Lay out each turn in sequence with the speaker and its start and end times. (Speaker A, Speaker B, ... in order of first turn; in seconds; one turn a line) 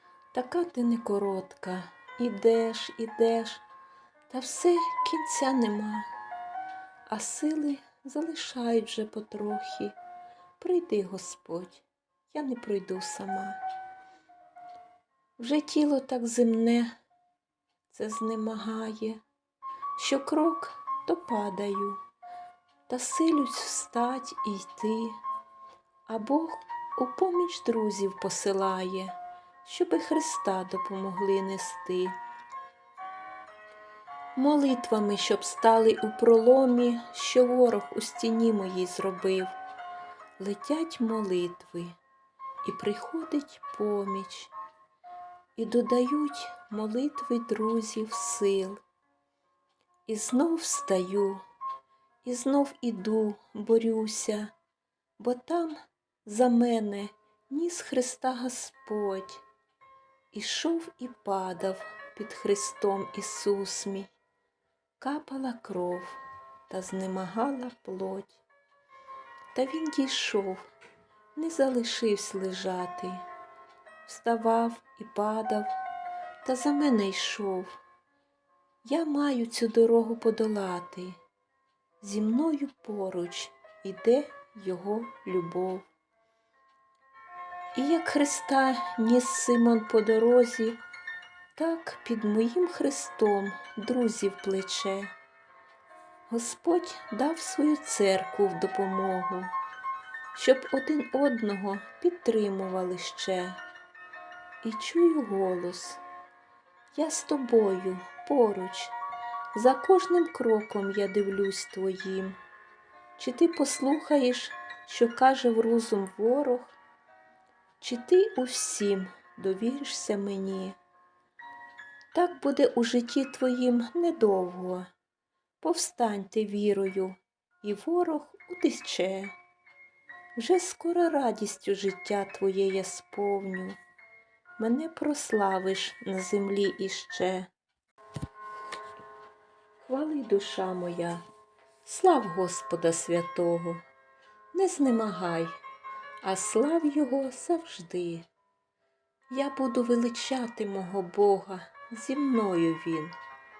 Speaker A: 0.3-3.6
Speaker A: 4.3-6.1
Speaker A: 7.1-9.9
Speaker A: 10.6-13.6
Speaker A: 15.4-16.9
Speaker A: 17.9-19.2
Speaker A: 20.0-22.0
Speaker A: 22.9-25.2
Speaker A: 26.1-32.1
Speaker A: 34.4-39.5
Speaker A: 40.4-42.0
Speaker A: 42.6-44.5
Speaker A: 45.5-48.8
Speaker A: 50.1-51.4
Speaker A: 52.2-54.5
Speaker A: 55.2-59.4
Speaker A: 60.3-64.1
Speaker A: 65.0-68.4
Speaker A: 69.5-70.6
Speaker A: 71.3-73.2
Speaker A: 74.0-75.7
Speaker A: 76.4-77.8
Speaker A: 78.8-81.2
Speaker A: 82.0-85.9
Speaker A: 87.7-90.8
Speaker A: 91.5-95.1
Speaker A: 96.3-99.5
Speaker A: 100.3-103.6
Speaker A: 104.6-106.0
Speaker A: 106.9-108.9
Speaker A: 109.5-112.3
Speaker A: 113.2-116.8
Speaker A: 117.8-120.8
Speaker A: 122.1-124.9
Speaker A: 125.6-129.3
Speaker A: 130.4-133.8
Speaker A: 134.6-137.5
Speaker A: 139.8-141.2
Speaker A: 141.8-143.8
Speaker A: 144.5-145.6
Speaker A: 146.2-148.3
Speaker A: 149.3-153.1